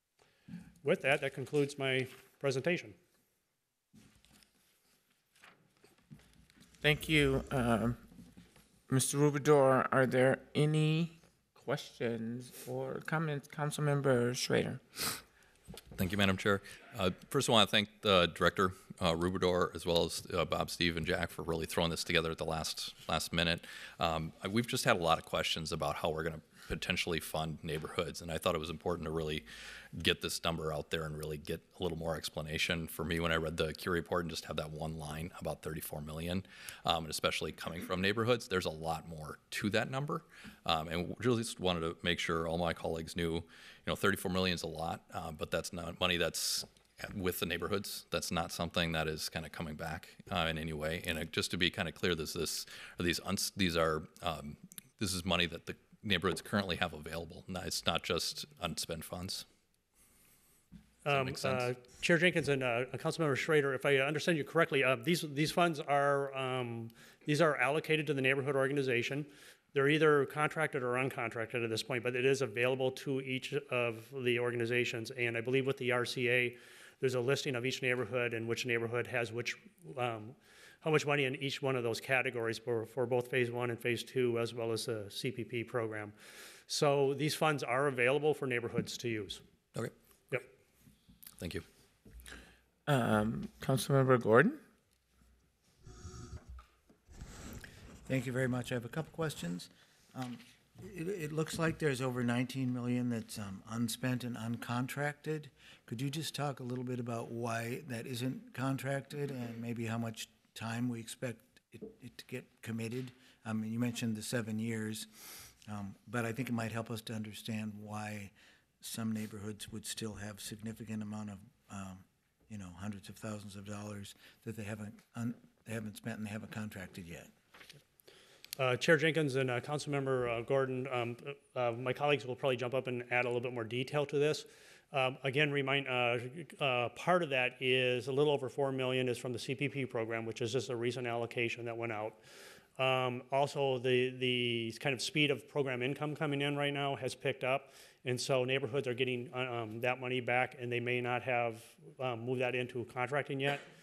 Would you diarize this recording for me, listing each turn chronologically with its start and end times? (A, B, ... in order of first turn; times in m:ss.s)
0:00.8-0:02.9 A
0:06.8-0:08.0 B
0:08.9-0:15.2 B
0:16.0-0:59.4 C
1:01.0-1:26.1 A
1:01.1-1:01.7 C
1:26.7-1:29.4 A
1:31.4-1:31.6 C
1:32.8-1:34.6 B
1:38.0-1:55.1 D
1:55.6-2:07.3 D
2:08.6-2:22.2 A
2:22.8-2:33.6 A